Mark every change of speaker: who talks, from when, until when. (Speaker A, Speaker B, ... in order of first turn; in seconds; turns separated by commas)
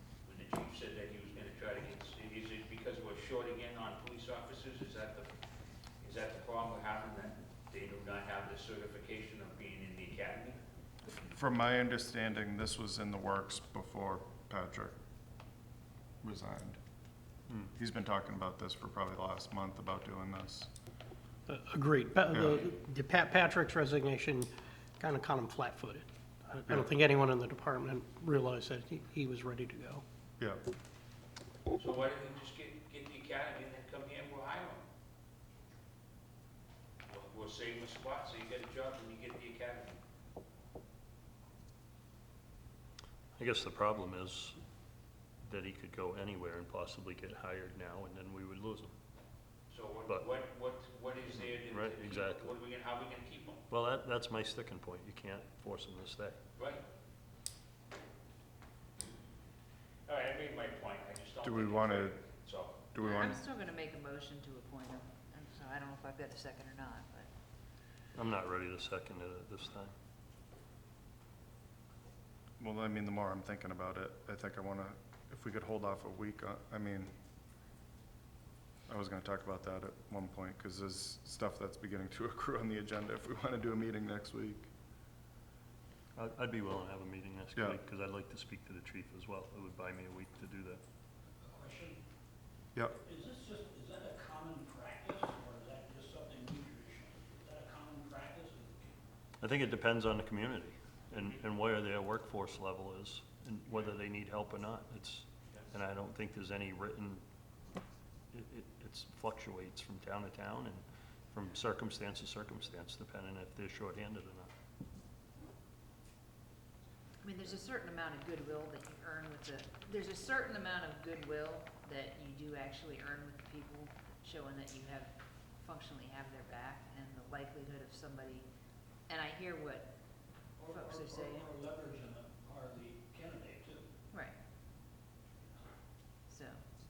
Speaker A: 0.2-5.3, Speaker A: 6.0-10.6, Speaker B: 11.1-14.9, Speaker B: 16.2-16.8, Speaker B: 17.8-20.7, Speaker C: 21.5-24.4, Speaker B: 22.3-22.6, Speaker C: 25.0-30.0, Speaker A: 31.8-34.8, Speaker A: 37.1-40.0, Speaker D: 43.4-44.6, Speaker D: 45.4-48.9, Speaker A: 49.7-53.6, Speaker D: 51.3-52.6, Speaker D: 53.7-56.4, Speaker A: 56.6-56.8, Speaker A: 60.1-63.3, Speaker B: 61.4-62.2, Speaker B: 62.9-63.4, Speaker E: 63.0-67.3, Speaker D: 68.2-69.9, Speaker B: 72.6-77.1, Speaker B: 78.9-84.7, Speaker D: 86.2-90.8, Speaker F: 91.5-92.0, Speaker F: 93.0-98.9, Speaker D: 99.4-107.2, Speaker D: 108.3-114.5, Speaker E: 117.2-128.5, Speaker E: 129.1-129.9, Speaker F: 130.6-133.9, Speaker E: 130.7-131.5, Speaker E: 136.3-136.6